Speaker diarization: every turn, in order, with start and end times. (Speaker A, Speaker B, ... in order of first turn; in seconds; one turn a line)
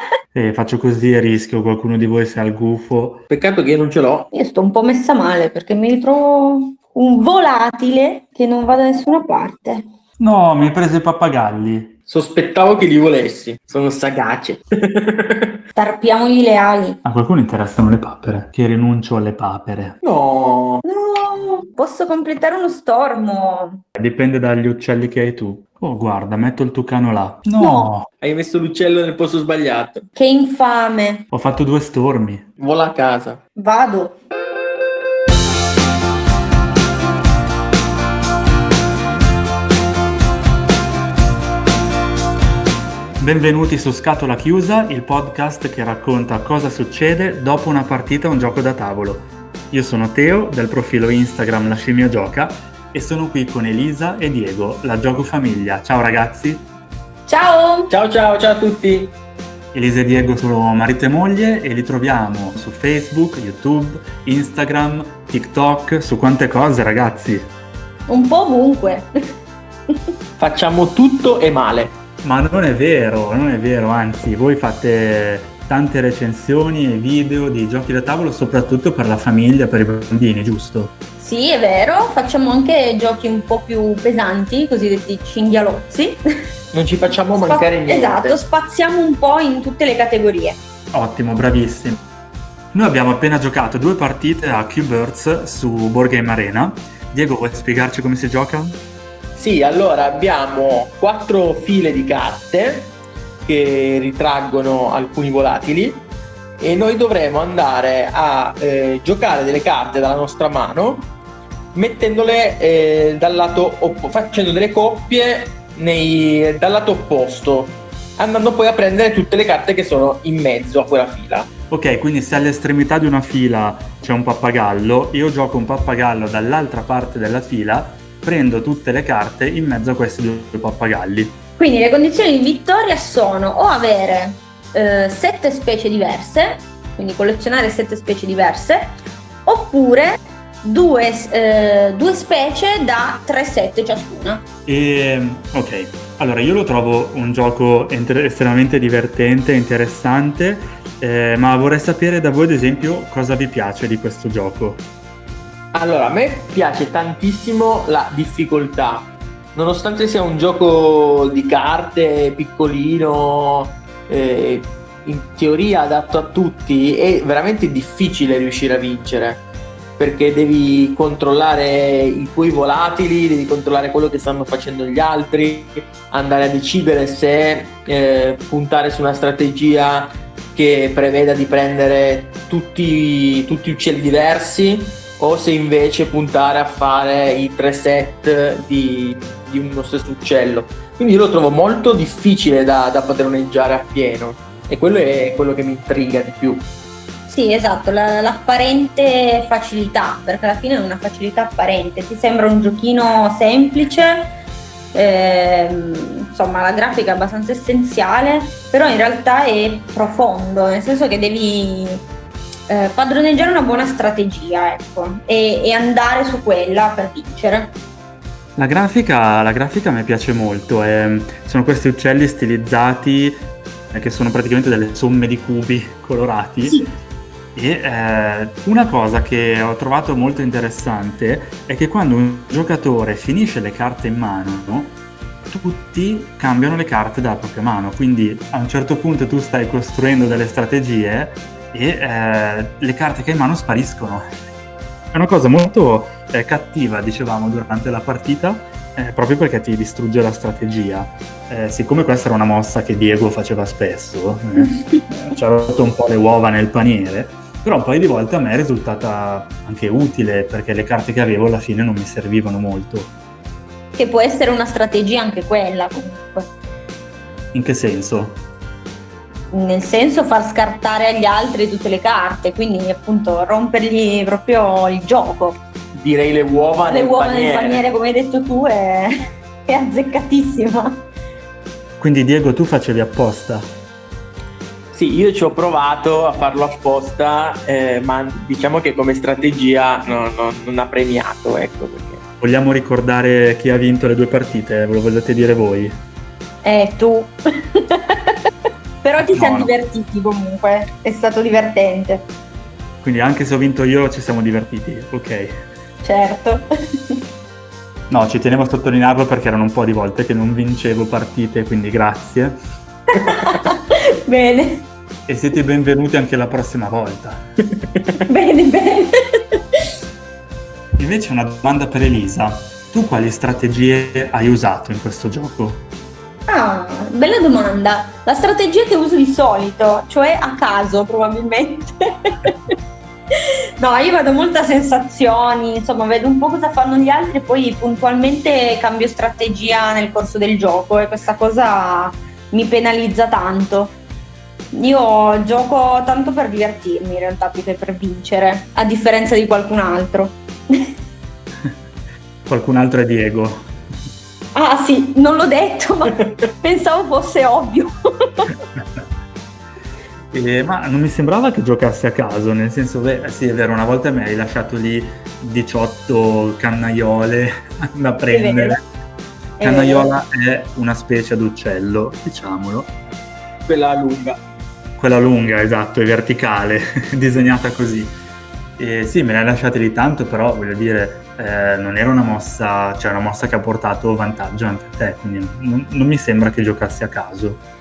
Speaker A: 0.3-3.2
Speaker B: 3.3-4.3
Speaker C: 4.3-9.8
Speaker A: 10.2-12.0
Speaker B: 12.1-15.6
Speaker C: 15.8-17.0
Speaker A: 17.0-20.0
Speaker B: 20.0-20.8
Speaker C: 20.8-23.8
Speaker A: 24.0-28.1
Speaker C: 27.6-27.9
Speaker B: 28.2-30.1
Speaker C: 30.2-31.2
Speaker A: 31.3-32.5
Speaker B: 32.6-33.4
Speaker C: 33.6-34.2
Speaker A: 43.2-56.7
Speaker C: 57.3-57.9
Speaker B: 57.9-59.1
Speaker A: 59.7-67.5
Speaker C: 68.1-69.1
Speaker B: 70.4-72.0
Speaker A: 72.2-80.9
Speaker C: 81.2-86.2
Speaker B: 86.7-88.4
Speaker C: 87.3-90.6
Speaker A: 90.9-92.0
Speaker A: 92.7-98.8
Speaker B: 99.3-102.9
Speaker B: 103.5-106.0
Speaker B: 106.6-111.1
Speaker B: 111.8-121.5
Speaker A: 121.7-131.4
Speaker C: 131.6-144.4
Speaker A: 144.7-154.8
Speaker B: 155.7-169.4
Speaker B: 170.0-196.7
Speaker C: 197.3-204.3
Speaker C: 204.9-212.1
Speaker C: 212.7-217.7
Speaker A: 218.6-226.8
Speaker C: 226.7-226.9
Speaker A: 227.6-235.0
Speaker A: 235.5-244.2
Speaker A: 245.1-263.1
Speaker C: 264.0-266.5
Speaker A: 267.5-268.4
Speaker C: 269.5-275.6
Speaker B: 275.9-277.8
Speaker C: 276.9-279.1
Speaker C: 279.7-281.0
Speaker A: 282.0-283.7
Speaker B: 284.9-292.2
Speaker A: 292.4-296.0
Speaker C: 296.6-298.4
Speaker C: 299.0-302.3
Speaker A: 299.2-299.7
Speaker A: 303.0-305.6
Speaker C: 306.0-307.2
Speaker A: 308.1-312.6
Speaker C: 313.1-314.9
Speaker A: 315.3-317.4
Speaker C: 318.3-319.6
Speaker A: 321.0-325.8
Speaker C: 326.5-332.6
Speaker C: 333.8-343.9
Speaker C: 344.7-350.9
Speaker A: 352.5-353.7
Speaker C: 354.6-358.5
Speaker A: 360.3-368.8
Speaker C: 368.3-368.8
Speaker C: 369.6-370.1
Speaker A: 369.6-372.9
Speaker B: 373.7-374.4
Speaker A: 375.0-378.2
Speaker A: 378.8-387.6